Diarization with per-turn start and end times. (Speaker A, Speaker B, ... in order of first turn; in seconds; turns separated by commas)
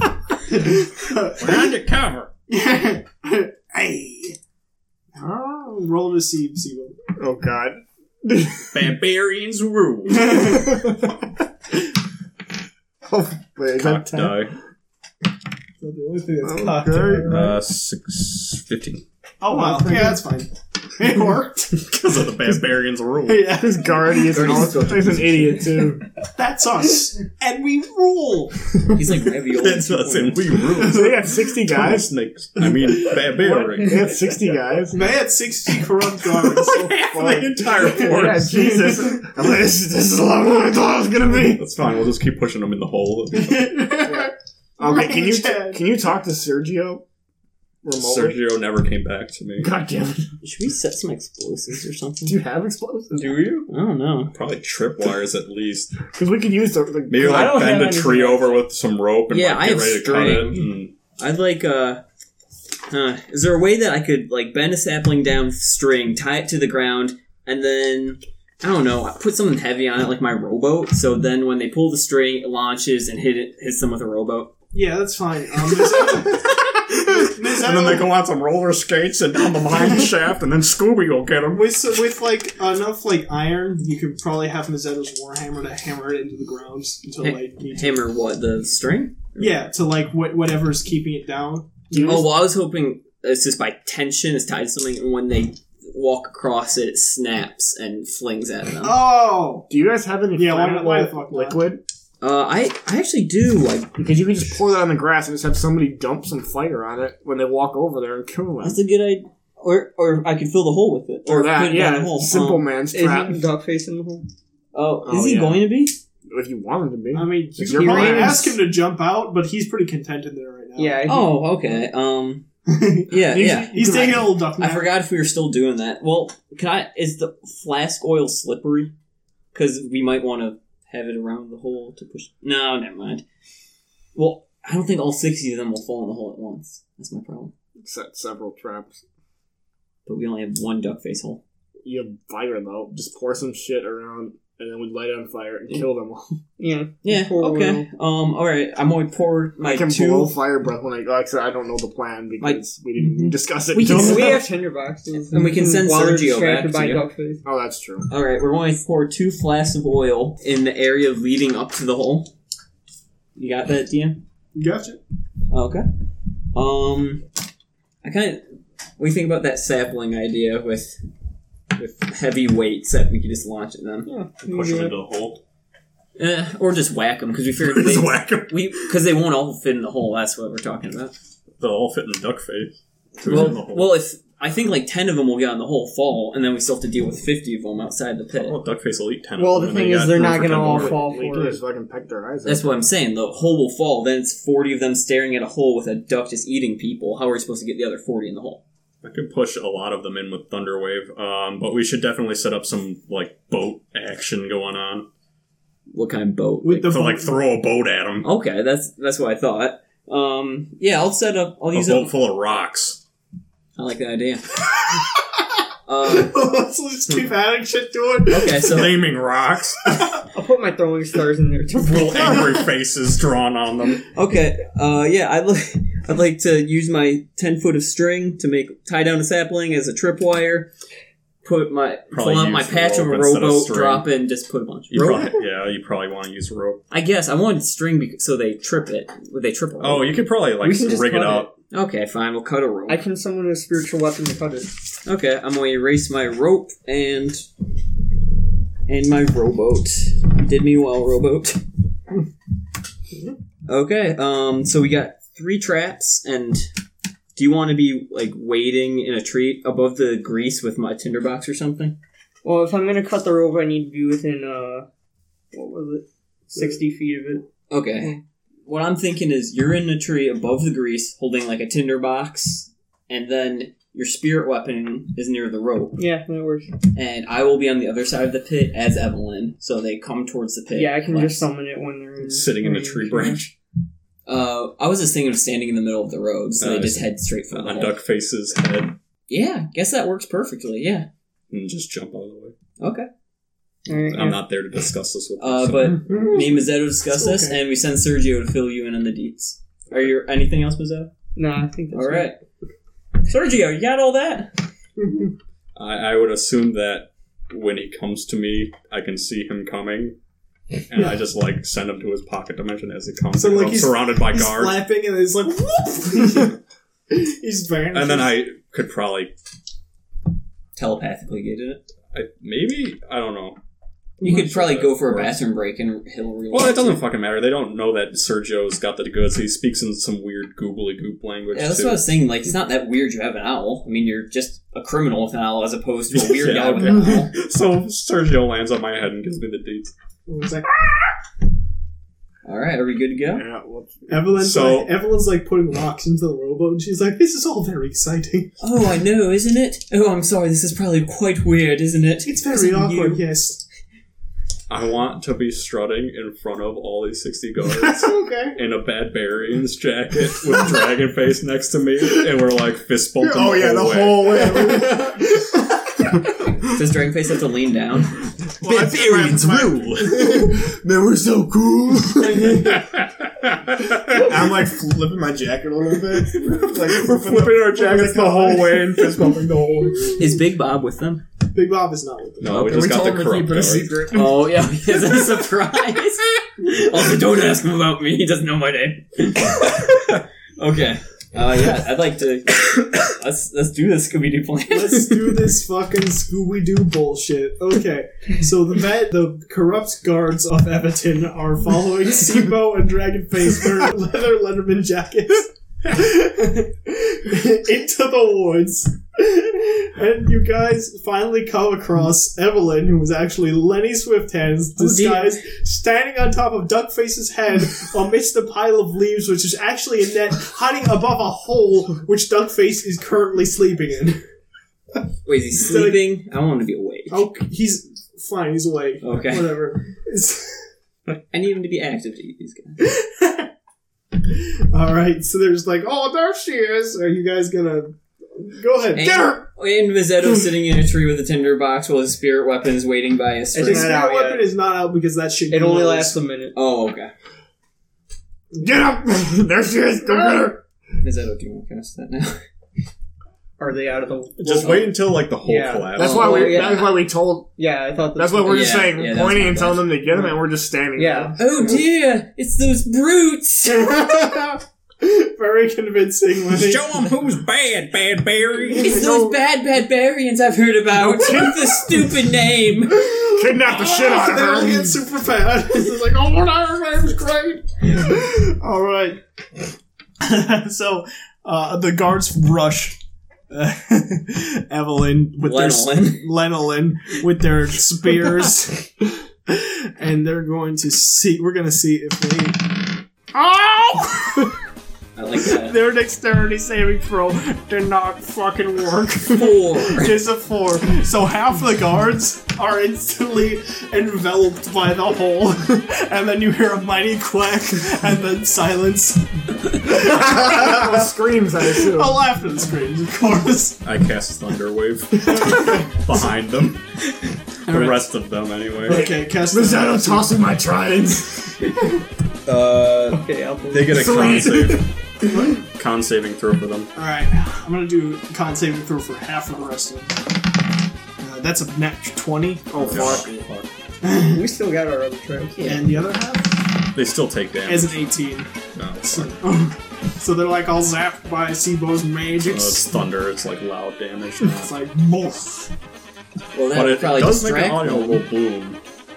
Speaker A: 0.5-1.7, Speaker B: 1.4-2.3, Speaker A: 2.5-4.4, Speaker A: 5.1-6.9, Speaker C: 7.2-8.8, Speaker B: 8.7-10.8, Speaker A: 10.1-10.9, Speaker C: 13.1-14.5, Speaker B: 13.7-14.5, Speaker A: 15.8-17.5, Speaker C: 16.4-17.5, Speaker B: 17.3-19.0, Speaker A: 19.4-21.9, Speaker C: 19.5-20.2, Speaker B: 21.8-23.6, Speaker A: 23.2-24.2, Speaker C: 23.5-26.0, Speaker D: 24.3-25.7, Speaker A: 26.3-29.0, Speaker D: 28.9-30.6, Speaker B: 29.6-34.1, Speaker A: 30.7-31.3, Speaker C: 30.8-32.1, Speaker C: 33.5-35.0, Speaker A: 34.9-37.0, Speaker B: 36.3-39.1, Speaker C: 36.8-41.7, Speaker A: 37.8-39.1, Speaker B: 41.3-43.9, Speaker A: 43.3-45.8, Speaker C: 44.0-47.0, Speaker C: 47.8-48.4, Speaker B: 48.0-49.7, Speaker C: 49.6-50.3, Speaker D: 50.4-52.4, Speaker C: 52.2-53.4, Speaker E: 53.2-53.7, Speaker D: 53.7-54.3, Speaker B: 54.3-56.0, Speaker C: 56.0-57.7, Speaker B: 57.1-60.9, Speaker E: 57.2-58.6, Speaker D: 59.3-62.0, Speaker D: 62.9-74.5, Speaker A: 74.7-78.1, Speaker B: 77.4-81.7, Speaker A: 81.5-88.0, Speaker D: 87.2-89.6, Speaker A: 89.4-92.3, Speaker C: 91.9-92.3, Speaker D: 92.0-99.0, Speaker A: 98.8-99.7, Speaker C: 99.7-101.8, Speaker A: 100.3-101.6, Speaker D: 102.2-103.9, Speaker C: 104.0-108.8, Speaker D: 108.6-112.7, Speaker C: 111.2-113.5, Speaker E: 112.9-114.2, Speaker D: 114.7-116.0, Speaker C: 115.0-115.7, Speaker C: 116.3-118.4, Speaker A: 117.1-121.1, Speaker D: 117.7-118.5, Speaker E: 120.8-121.4, Speaker D: 121.0-122.5, Speaker A: 122.7-123.0, Speaker D: 123.1-128.9, Speaker C: 123.1-124.3, Speaker A: 123.7-125.0, Speaker D: 129.5-133.2, Speaker D: 134.1-137.5, Speaker C: 137.8-139.0, Speaker D: 140.1-141.4, Speaker C: 141.8-146.4, Speaker E: 146.6-147.9, Speaker D: 147.0-150.3, Speaker C: 149.6-154.4, Speaker D: 153.2-154.4, Speaker E: 153.8-157.4, Speaker D: 155.3-157.1, Speaker C: 157.4-158.1, Speaker D: 158.1-162.3, Speaker D: 163.3-164.2, Speaker A: 164.5-165.0, Speaker D: 165.5-165.9, Speaker D: 166.5-167.2, Speaker D: 168.0-168.4, Speaker D: 169.0-171.0, Speaker D: 171.8-174.1, Speaker E: 174.1-174.9, Speaker B: 174.4-175.4, Speaker D: 176.2-181.1, Speaker B: 177.6-178.9, Speaker B: 181.6-184.0, Speaker D: 183.2-188.6, Speaker B: 188.4-191.0, Speaker E: 189.4-191.6, Speaker C: 190.7-192.8, Speaker D: 192.4-198.6, Speaker B: 199.0-205.1, Speaker D: 205.9-206.8, Speaker A: 206.6-207.4, Speaker B: 206.7-208.3, Speaker D: 208.2-212.1, Speaker B: 211.7-213.0, Speaker D: 213.8-214.5, Speaker D: 215.9-216.4, Speaker A: 216.0-218.8, Speaker D: 218.2-219.1, Speaker B: 218.5-219.9, Speaker E: 220.3-222.7, Speaker B: 221.7-224.0, Speaker D: 224.1-230.7, Speaker D: 231.4-235.1, Speaker B: 232.1-234.1, Speaker B: 234.9-236.8, Speaker E: 235.0-235.3, Speaker D: 236.9-240.1, Speaker B: 239.8-241.5, Speaker E: 240.6-241.5, Speaker D: 241.7-243.0, Speaker E: 242.9-244.7, Speaker D: 245.0-247.4, Speaker D: 248.9-251.6, Speaker D: 253.7-256.7, Speaker D: 257.4-261.9, Speaker E: 262.4-264.9, Speaker E: 265.5-267.4, Speaker D: 267.7-276.0, Speaker E: 275.9-276.7, Speaker D: 276.9-281.5, Speaker E: 280.7-283.4, Speaker B: 282.2-283.5, Speaker D: 284.2-288.0, Speaker B: 286.6-288.9, Speaker D: 289.3-291.1, Speaker B: 291.5-292.5, Speaker D: 292.8-293.1, Speaker E: 293.9-294.4, Speaker B: 293.9-296.0, Speaker D: 295.4-301.1, Speaker A: 297.1-297.6, Speaker E: 301.4-302.3, Speaker D: 301.9-302.4, Speaker D: 303.2-304.6, Speaker A: 305.0-305.3, Speaker B: 305.7-310.2, Speaker B: 310.9-314.9, Speaker A: 313.3-316.6, Speaker A: 317.1-318.4, Speaker B: 317.9-319.3, Speaker D: 320.8-321.8, Speaker B: 322.1-323.6, Speaker D: 324.2-327.0, Speaker B: 324.2-325.4, Speaker B: 326.5-332.0, Speaker D: 331.5-337.3, Speaker B: 336.1-339.9, Speaker A: 340.3-340.7, Speaker D: 342.4-343.4, Speaker C: 343.3-344.3, Speaker A: 344.1-348.5, Speaker B: 344.4-344.9, Speaker D: 348.6-353.2, Speaker A: 352.2-353.6, Speaker B: 354.7-364.9, Speaker C: 357.8-358.6, Speaker A: 358.1-358.5, Speaker C: 363.2-365.4, Speaker D: 366.6-368.1, Speaker B: 368.6-370.3, Speaker C: 368.6-372.7, Speaker A: 372.1-372.9, Speaker B: 372.8-374.4, Speaker C: 374.1-379.3, Speaker B: 376.2-380.2, Speaker D: 380.1-381.2, Speaker A: 381.5-382.8, Speaker B: 382.4-384.1, Speaker D: 382.5-383.1, Speaker C: 382.5-384.5, Speaker D: 384.1-395.5, Speaker A: 394.7-424.2, Speaker D: 414.8-415.4, Speaker D: 425.2-427.2, Speaker A: 425.6-426.1, Speaker A: 427.1-430.7, Speaker D: 429.0-429.6, Speaker D: 431.3-432.8, Speaker A: 432.8-433.5, Speaker A: 434.2-439.3, Speaker D: 438.9-443.9, Speaker C: 439.0-439.4, Speaker E: 443.5-444.5, Speaker A: 443.5-446.2, Speaker E: 445.5-446.5, Speaker D: 446.5-447.1, Speaker C: 448.5-450.6, Speaker D: 451.0-452.4, Speaker E: 453.6-457.1, Speaker B: 454.4-456.4, Speaker C: 455.9-457.5, Speaker D: 456.0-456.9, Speaker E: 457.6-458.9, Speaker C: 458.1-461.4, Speaker D: 458.4-459.9, Speaker E: 460.9-461.4, Speaker D: 461.4-463.9, Speaker A: 463.6-467.0, Speaker B: 466.5-469.0, Speaker D: 468.8-473.1, Speaker C: 468.8-469.4, Speaker C: 471.0-471.5, Speaker A: 473.0-479.2, Speaker C: 473.3-475.0, Speaker A: 480.2-483.0, Speaker A: 483.5-488.9, Speaker D: 485.4-486.3, Speaker A: 489.5-494.5, Speaker D: 495.1-495.8, Speaker A: 495.4-511.0, Speaker D: 499.3-500.2, Speaker C: 509.9-512.2, Speaker A: 511.6-513.8, Speaker B: 513.8-516.9, Speaker A: 515.2-515.9, Speaker B: 517.7-519.1, Speaker A: 517.7-518.0, Speaker A: 518.9-520.4, Speaker C: 518.9-521.7, Speaker B: 522.5-524.9, Speaker E: 523.1-524.6, Speaker C: 523.9-524.9, Speaker A: 525.3-525.5, Speaker B: 525.5-526.9, Speaker A: 526.9-530.2, Speaker A: 531.2-532.7, Speaker C: 532.7-533.3, Speaker B: 532.8-533.7, Speaker A: 534.0-534.4, Speaker E: 534.1-535.6, Speaker D: 535.5-535.9, Speaker A: 535.6-536.6, Speaker B: 536.9-538.0, Speaker A: 537.6-538.5, Speaker B: 538.8-539.4, Speaker A: 539.1-543.0, Speaker B: 542.4-544.7, Speaker A: 544.5-545.7, Speaker D: 546.5-548.2, Speaker B: 546.7-548.8